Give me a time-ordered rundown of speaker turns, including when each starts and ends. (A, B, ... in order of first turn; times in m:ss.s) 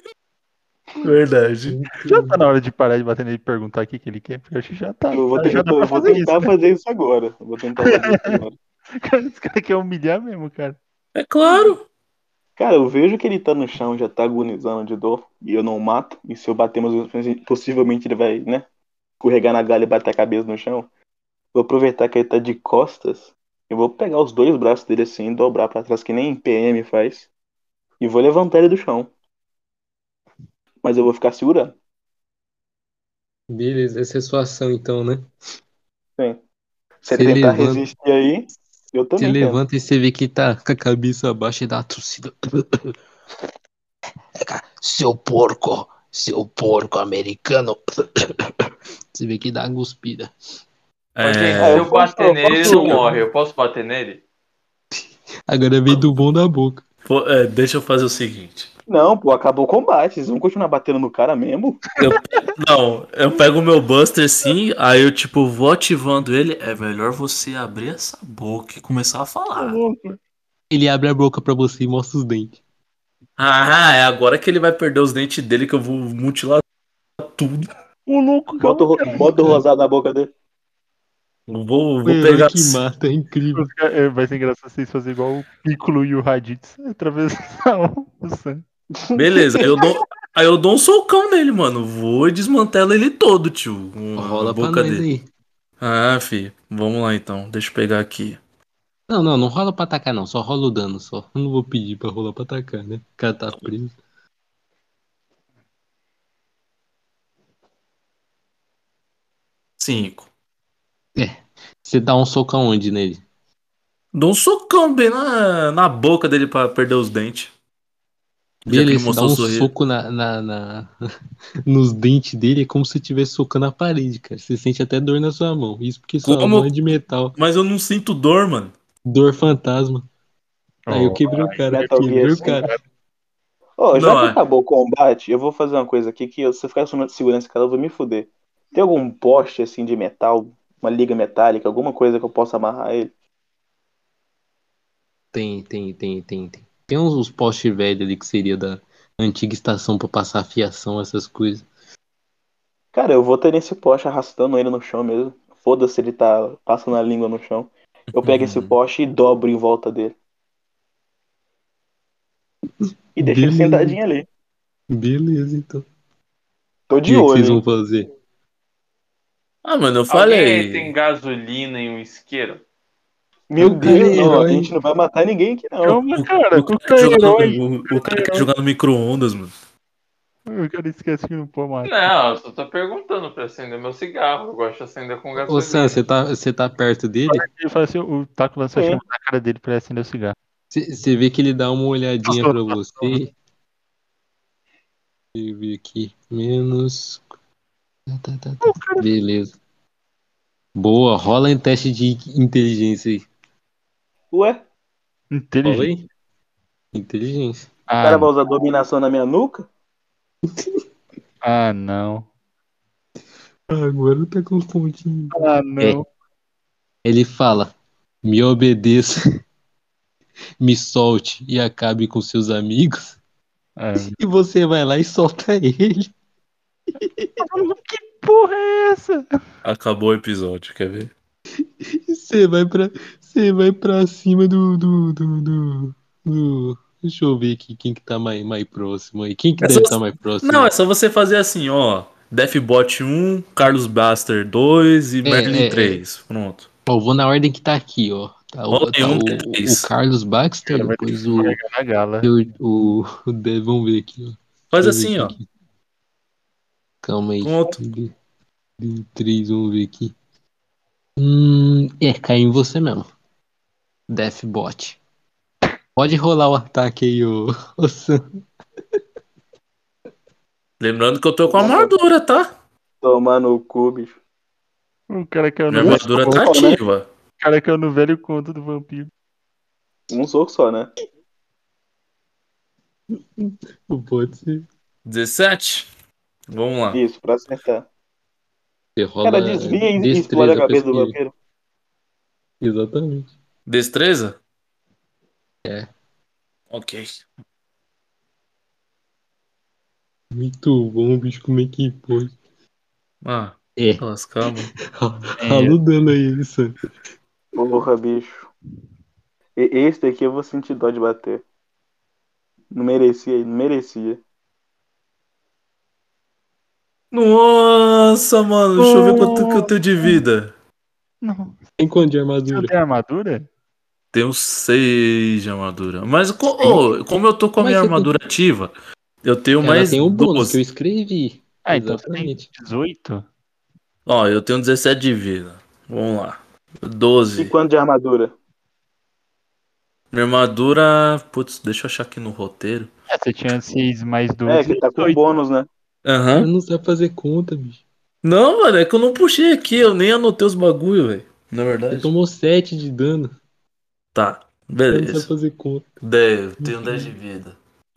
0:01.0-0:01.8 A
0:01.7-0:02.4 B
0:01.9-0:06.5 C
0:05.1-0:08.6 D
0:07.8-0:08.4 C
0:09.0-0:10.8 C
0:11.2-0:11.8 A
0:12.6-0:18.6 D
0:19.2-0:20.9 D
0:21.5-0:27.3 D
0:28.0-0:29.1 D
0:30.8-0:31.8 D
0:33.5-0:35.3 B
0:37.0-0:39.6 D
0:37.1-0:37.8 B
0:39.2-0:42.9 B
0:44.4-0:48.3 B
0:49.1-0:50.3 B
0:51.2-0:51.9 A
0:51.2-0:54.2 E
0:51.6-0:53.1 D
0:52.6-0:53.0 A
0:55.0-0:56.8 B
0:57.0-0:58.7 A
0:58.9-1:01.8 D
1:02.0-1:02.4 C
1:02.0-1:09.8 A
1:09.6-1:10.2 C
1:10.7-1:12.6 B
1:13.4-1:16.6 A
1:17.2-1:17.7 A
1:18.1-1:19.6 C
1:18.6-1:20.3 D
1:21.5-1:22.8 A
1:22.0-1:23.7 B
1:23.6-1:28.6 C
1:29.0-1:29.8 D
1:29.2-1:35.0 A
1:34.2-1:35.3 B
1:35.8-1:38.4 A
1:39.1-1:44.0 B
1:49.8-1:50.3 A
1:51.2-1:53.2 B
1:54.1-1:57.5 A
1:58.6-1:59.7 A
1:58.7-2:00.9 B
2:01.7-2:07.4 B
2:06.2-2:06.7 A
2:07.4-2:08.7 A
2:09.1-2:10.1 B
2:10.9-2:12.8 C
2:10.9-2:12.7 B
2:11.7-2:12.6 D
2:13.8-2:23.1 D
2:13.9-2:14.4 A
2:25.3-2:31.7 B
2:32.9-2:40.2 D
2:38.1-2:38.8 A
2:42.8-2:44.0 B
2:43.2-2:44.3 D
2:44.9-2:45.9 B
2:46.9-2:47.6 D
2:47.1-2:48.1 B
2:49.6-2:50.9 A
2:50.1-2:52.6 E
2:53.5-2:56.0 D
2:53.6-2:54.7 B
2:55.8-2:58.5 C
2:56.2-2:59.6 A
3:00.5-3:02.0 C
3:01.8-3:06.0 E
3:05.4-3:07.5 B
3:07.3-3:10.4 C
3:08.8-3:09.0 D
3:10.7-3:13.3 B
3:12.3-3:13.2 C
3:15.4-3:17.2 B
3:18.1-3:19.6 B
3:18.6-3:19.1 C
3:20.8-3:23.3 B
3:24.3-3:24.6 D
3:25.3-3:25.9 C
3:25.6-3:26.1 B
3:26.9-3:27.7 B
3:27.9-3:28.3 C
3:28.0-3:29.7 D
3:30.5-3:30.8 B
3:31.4-3:32.3 C
3:33.7-3:36.0 B
3:35.3-3:36.1 C
3:37.0-3:37.7 B
3:38.2-3:39.2 B
3:40.6-3:43.2 B
3:43.8-3:44.2 C
3:44.0-3:46.1 B
3:47.0-3:47.3 B
3:47.4-3:49.3 C
3:49.6-3:51.1 A
3:51.8-4:00.7 B
3:59.6-4:06.7 A
4:05.2-4:06.0 B
4:06.9-4:11.6 B
4:08.7-4:09.9 A
4:10.7-4:12.3 C
4:12.2-4:15.5 B
4:14.7-4:15.4 A
4:17.0-4:18.1 B
4:17.4-4:17.8 A
4:18.8-4:20.1 B
4:21.2-4:23.1 B
4:24.1-4:25.0 B
4:26.0-4:28.2 B
4:30.8-4:32.5 A
4:31.5-4:31.9 D
4:33.0-4:34.2 D
4:35.1-4:36.8 C
4:35.7-4:37.1 A
4:35.8-4:36.8 D
4:37.4-4:39.1 C
4:40.1-4:40.9 D
4:43.1-4:44.7 B
4:45.1-4:45.9 A
4:46.5-4:47.0 A
4:46.9-4:47.9 D
4:49.0-4:51.2 B
4:49.2-4:51.3 D
4:52.6-4:53.3 B
4:53.7-4:54.4 A
4:56.7-4:57.2 A
5:00.3-5:02.4 B
5:03.2-5:04.7 A
5:04.9-5:06.7 B
5:05.4-5:05.8 C
5:07.6-5:08.5 D
5:09.6-5:11.4 D
5:12.7-5:14.2 D
5:17.1-5:20.5 A
5:18.8-5:20.2 C
5:21.2-5:21.6 C
5:21.8-5:22.7 B
5:22.5-5:23.5 C
5:24.1-5:28.7 A
5:26.6-5:26.9 B
5:27.6-5:28.1 B
5:29.2-5:30.6 A
5:29.6-5:32.5 B
5:31.7-5:33.3 C
5:34.1-5:37.5 A
5:37.4-5:38.3 D
5:40.1-5:42.9 A
5:43.1-5:45.2 C
5:44.5-5:45.7 D
5:46.0-5:46.5 A
5:46.4-5:47.8 B
5:48.2-5:52.1 A
5:51.9-5:53.3 B
5:54.1-5:55.3 A
5:54.9-5:55.9 B
5:56.0-5:57.6 A
5:56.6-5:57.1 B